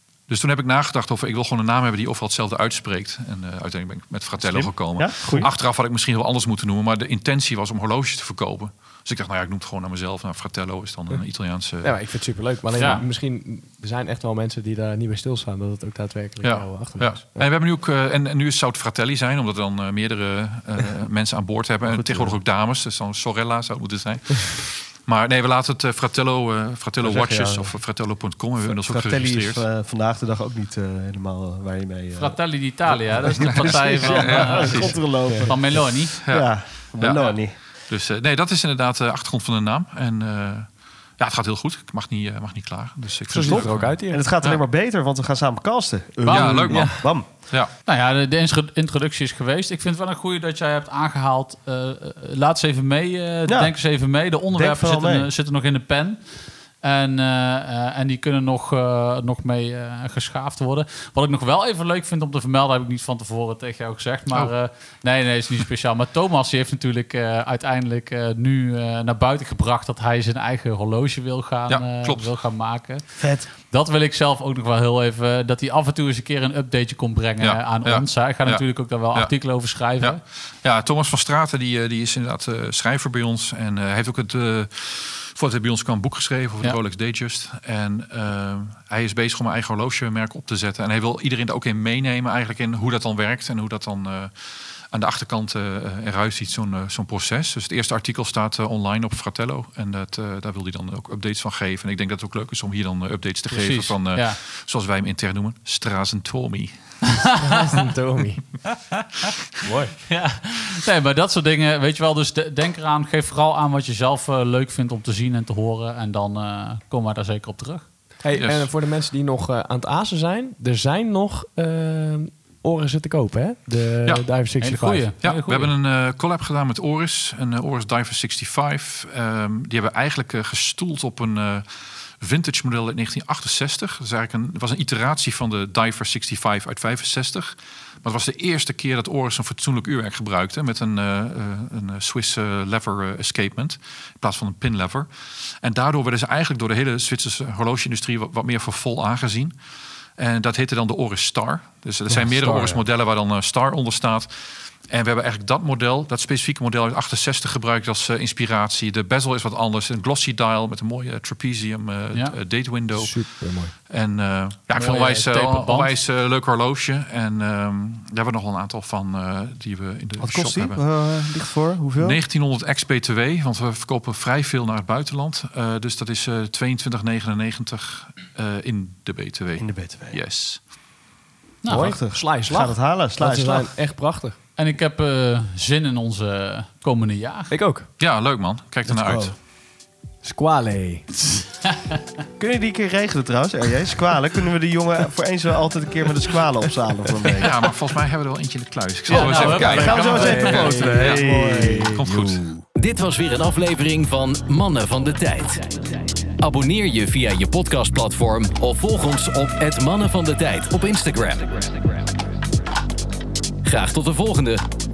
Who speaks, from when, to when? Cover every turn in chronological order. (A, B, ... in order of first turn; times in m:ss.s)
0:00.3-0:12.0 A
0:04.4-0:05.5 B
0:11.8-0:17.4 C
0:12.8-0:13.0 D
0:16.4-0:29.7 A
0:21.9-0:22.4 B
0:27.1-0:27.7 B
0:28.6-0:37.5 B
0:32.2-0:36.2 D
0:33.4-0:35.0 A
0:35.1-0:35.6 C
0:36.2-0:40.7 A
0:41.2-0:44.6 A
0:43.3-0:44.3 C
0:44.1-0:47.3 B
0:46.2-0:47.0 D
0:46.3-0:47.7 A
0:47.9-0:56.2 D
0:53.5-0:53.7 B
0:54.5-0:55.3 B
0:56.8-1:13.0 D
1:11.7-1:12.3 A
1:13.2-1:13.5 B
1:13.6-1:20.2 D
1:17.4-1:18.6 A
1:20.0-1:46.7 A
1:43.5-1:44.4 D
1:47.1-1:47.6 D
1:47.4-1:48.5 C
1:49.6-1:49.9 C
1:50.1-1:57.9 D
1:58.2-2:05.1 C
1:58.3-1:58.7 A
2:04.6-2:05.7 D
2:05.2-2:11.7 A
2:12.2-2:25.1 A
2:25.6-2:29.5 A
2:30.2-2:43.3 A
2:32.2-2:32.8 C
2:43.0-2:43.7 C
2:43.9-2:50.8 A
2:44.7-2:46.0 D
2:50.2-2:52.2 B
2:52.0-3:00.6 A
2:59.6-3:00.2 B
3:01.6-3:01.9 D
3:01.7-3:04.4 C
3:01.7-3:03.7 B
3:04.6-3:07.5 D
3:07.5-3:07.9 C
3:08.0-3:09.4 A
3:08.9-3:09.3 B
3:10.2-3:11.1 C
3:11.6-3:12.0 D
3:12.4-3:17.5 B
3:17.4-3:22.5 A
3:19.1-3:20.5 D
3:19.2-3:22.6 B
3:19.7-3:21.9 C
3:22.8-3:32.0 E
3:33.6-3:34.6 E